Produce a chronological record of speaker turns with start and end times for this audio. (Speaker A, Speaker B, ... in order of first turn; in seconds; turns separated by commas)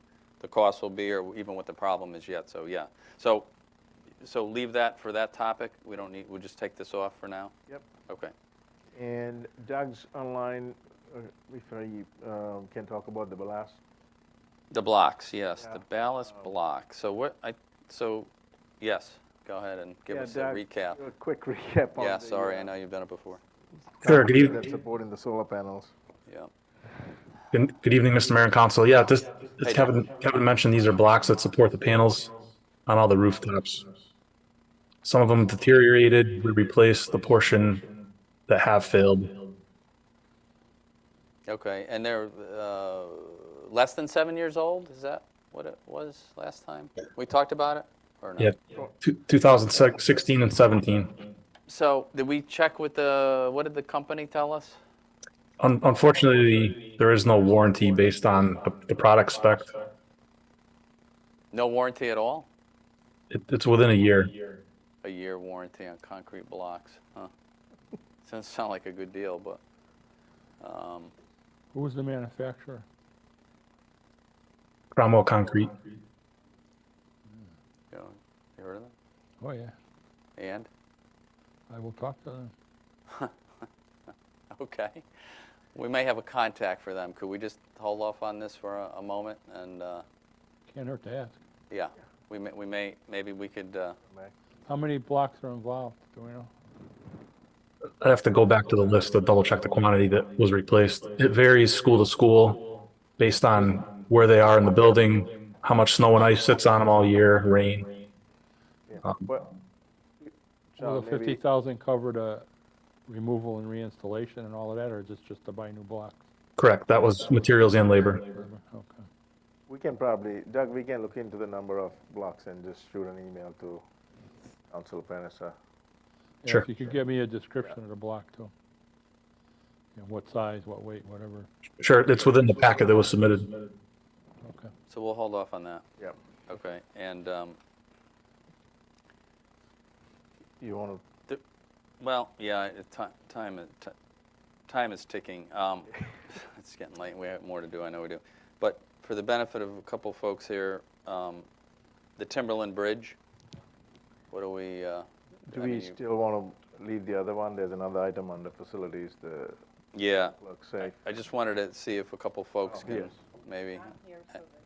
Speaker A: 0.4-3.5, Speaker A: 4.2-7.5, Speaker B: 8.9-13.8, Speaker A: 14.7-21.0, Speaker B: 20.1-22.7, Speaker A: 22.0-23.4, Speaker B: 24.0-25.9, Speaker C: 24.0-24.6, Speaker C: 27.5-33.9, Speaker A: 29.6-29.9, Speaker C: 35.0-37.9, Speaker C: 38.5-39.4, Speaker A: 41.5-48.5, Speaker C: 48.4-51.2, Speaker A: 51.7-54.8, Speaker C: 55.6-59.8, Speaker A: 61.5-62.5, Speaker C: 63.3-64.3, Speaker A: 65.0-67.3, Speaker A: 68.2-69.6, Speaker A: 70.6-71.1, Speaker D: 71.7-72.8, Speaker C: 74.9-75.8, Speaker A: 77.9-78.9, Speaker D: 79.4-79.7, Speaker A: 80.4-80.7, Speaker D: 81.7-82.5, Speaker A: 84.5-85.0, Speaker A: 85.8-90.0, Speaker D: 90.7-91.4, Speaker A: 91.7-94.0, Speaker B: 94.1-94.3, Speaker D: 94.7-96.5, Speaker C: 98.0-107.9, Speaker B: 108.9-109.5, Speaker B: 110.2-111.4, Speaker D: 110.9-112.5, Speaker D: 113.1-116.2, Speaker C: 116.6-118.2, Speaker D: 118.4-119.0, Speaker B: 119.7-123.8, Speaker B: 124.7-125.5, Speaker D: 126.4-128.5, Speaker D: 130.0-131.5, Speaker C: 131.8-133.5, Speaker D: 134.4-134.7, Speaker A: 134.9-135.8, Speaker A: 136.5-137.6, Speaker B: 140.6-141.0, Speaker A: 142.0-143.9, Speaker A: 144.7-151.5, Speaker A: 152.2-153.2, Speaker A: 154.3-156.0, Speaker B: 155.5-159.6, Speaker A: 159.9-164.4, Speaker B: 160.3-160.9, Speaker B: 162.6-163.2